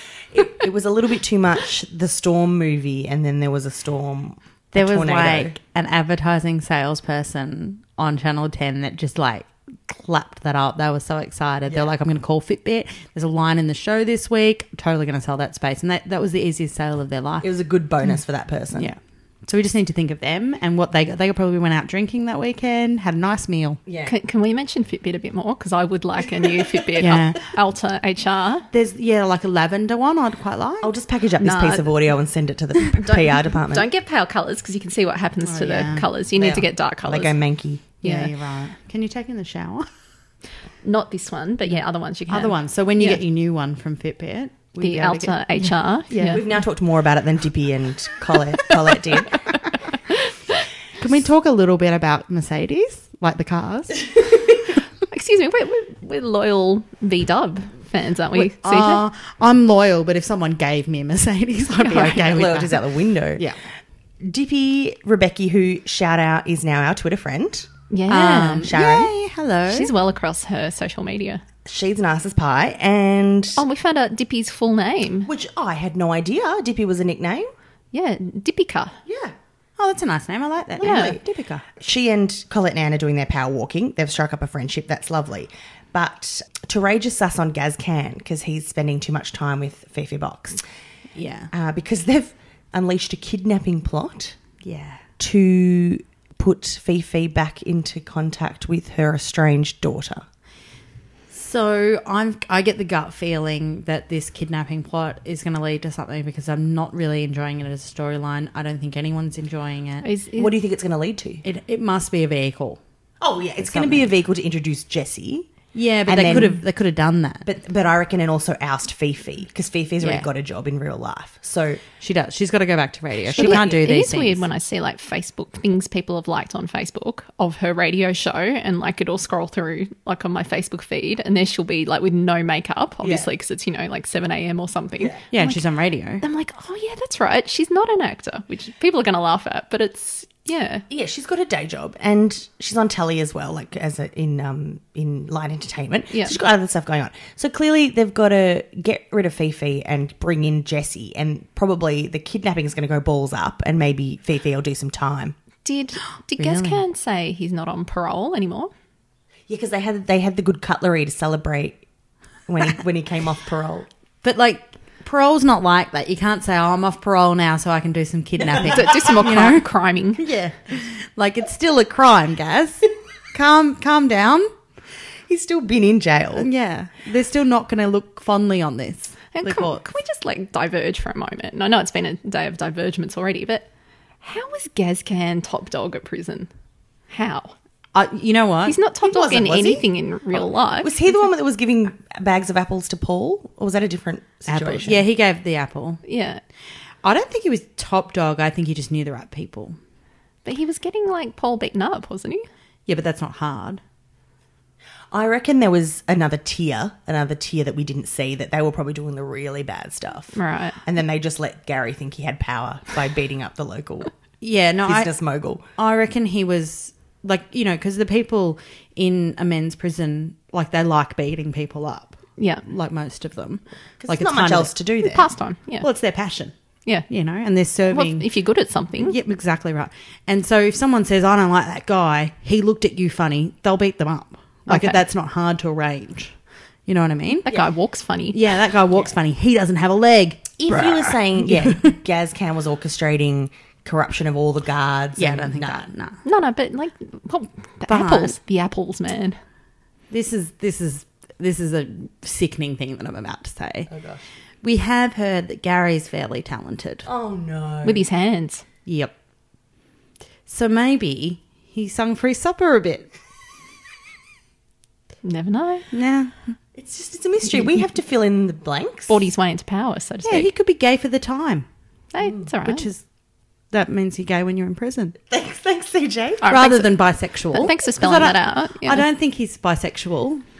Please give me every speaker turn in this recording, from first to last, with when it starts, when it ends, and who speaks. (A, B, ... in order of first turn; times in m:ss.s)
0:00.3-0:05.6 A
0:04.7-0:17.5 B
0:17.4-0:18.9 A
0:18.7-0:23.8 B
0:23.9-0:24.2 A
0:24.1-0:28.7 C
0:27.0-0:27.4 B
0:28.7-0:30.9 B
0:30.8-0:33.9 A
0:31.4-0:32.0 C
0:33.0-0:38.3 C
0:35.4-0:36.1 B
0:36.4-0:37.8 A
0:38.0-0:39.9 B
0:40.8-0:43.2 C
0:42.3-0:46.4 B
0:44.8-0:46.4 C
0:46.3-0:49.4 A
0:51.0-0:54.1 B
0:55.1-0:59.0 C
0:58.4-1:02.8 B
1:01.8-1:02.3 C
1:02.2-1:03.4 A
1:04.2-1:07.7 A
1:07.9-1:08.7 C
1:08.1-1:09.9 B
1:08.6-1:09.1 A
1:09.7-1:11.4 C
1:11.6-1:13.6 A
1:13.6-1:15.3 C
1:15.2-1:17.5 A
1:17.9-1:19.0 C
1:19.1-1:19.4 A
1:19.8-1:21.6 B
1:20.8-1:30.6 A
1:20.8-1:21.2 C
1:31.2-1:31.5 B
1:31.5-1:34.4 A
1:34.6-1:35.0 B
1:35.2-1:40.2 A
1:41.3-1:50.1 B
1:50.0-1:50.6 C
1:50.4-1:51.4 A
1:51.4-1:52.8 B
1:53.2-1:55.5 A
1:53.6-1:54.1 B
1:55.7-1:57.5 B
1:56.1-1:56.6 A
1:57.4-2:01.8 A
2:00.0-2:00.3 B
2:02.0-2:04.4 B
2:03.3-2:03.8 A
2:03.4-2:15.6 C
2:13.0-2:13.3 A
2:15.3-2:16.2 B
2:16.2-2:20.8 C
2:20.9-2:35.4 A
2:35.6-2:38.7 C
2:36.4-2:36.8 B
2:39.5-2:41.8 A
2:42.5-2:43.9 A
2:44.2-2:49.6 B
2:48.6-2:50.2 C
2:50.2-2:54.5 B
2:55.3-2:56.5 A
2:56.4-2:59.8 B
2:59.3-3:03.7 C
3:04.2-3:06.5 C
3:07.1-3:07.5 C
3:08.0-3:08.8 B
3:08.7-3:11.1 C
3:09.0-3:15.0 A
3:14.5-3:16.0 B
3:16.0-3:16.4 C
3:17.0-3:19.8 B
3:20.4-3:22.4 C
3:22.9-3:23.8 B
3:25.1-3:34.1 A
3:30.3-3:30.8 C
3:34.4-3:35.1 B
3:34.8-3:35.6 A
3:35.8-3:44.7 B
3:42.4-3:42.6 C
3:44.0-3:45.3 A
3:45.0-3:45.9 C
3:45.8-3:46.5 B
3:47.1-3:48.3 B
3:47.9-3:49.2 C
3:49.0-3:57.5 B
3:54.7-3:55.0 C
3:57.4-3:58.4 C
3:58.3-4:01.9 B
4:00.6-4:05.9 A
4:05.2-4:06.2 B
4:06.2-4:09.4 C
4:07.9-4:08.4 B
4:10.1-4:13.9 B
4:13.9-4:14.2 A
4:14.6-4:17.1 B
4:17.1-4:18.1 A
4:17.8-4:18.6 C
4:18.9-4:19.2 B
4:20.5-4:23.1 B
4:25.2-4:25.9 C
4:25.9-4:26.5 B
4:26.8-4:29.2 A
4:29.1-4:30.5 C
4:30.2-4:31.7 B
4:32.1-4:32.9 C
4:32.6-4:33.0 B
4:33.7-4:35.2 B
4:35.3-4:36.5 A
4:36.4-4:37.0 C
4:36.4-4:40.4 B
4:37.5-4:39.1 C